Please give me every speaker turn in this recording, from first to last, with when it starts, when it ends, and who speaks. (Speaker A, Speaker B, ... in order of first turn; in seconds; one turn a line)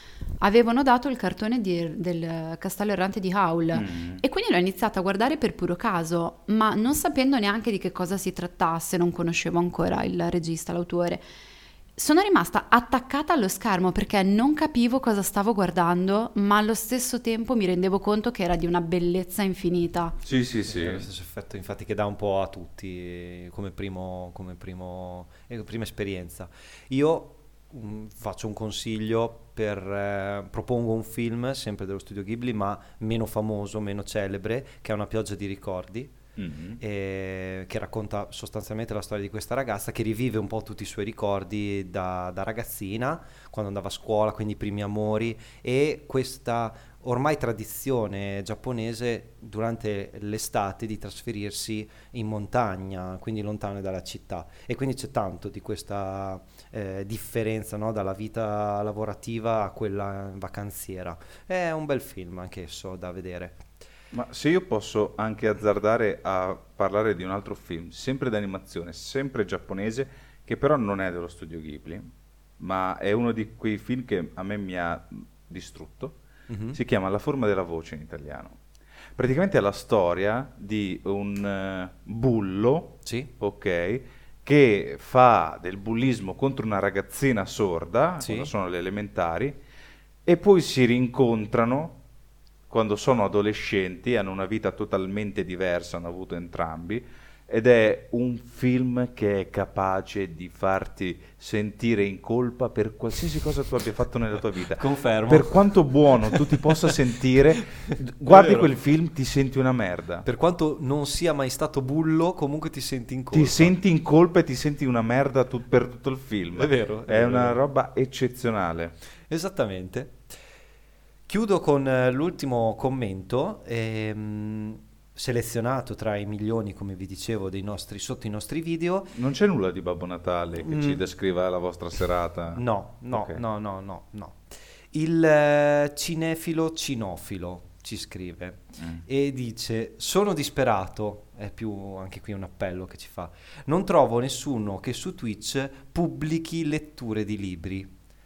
Speaker A: 0.4-11.2
Speaker B: 3.7-4.2
Speaker A: 12.0-20.2
Speaker B: 20.2-21.1
Speaker C: 20.7-36.1
Speaker B: 36.4-36.8
Speaker C: 36.8-63.7
Speaker B: 64.1-76.2
Speaker C: 76.5-76.8
Speaker B: 76.7-78.6
Speaker B: 79.2-89.6
Speaker C: 83.0-83.3
Speaker C: 88.2-88.5
Speaker B: 90.3-92.0
Speaker B: 92.7-110.3
Speaker C: 104.8-105.7
Speaker C: 106.2-106.9
Speaker C: 107.6-108.7
Speaker C: 110.2-113.8
Speaker B: 113.3-119.0
Speaker C: 116.6-117.6
Speaker C: 119.3-120.2
Speaker C: 121.3-129.2
Speaker B: 129.2-133.4
Speaker C: 130.6-131.0
Speaker C: 132.6-147.9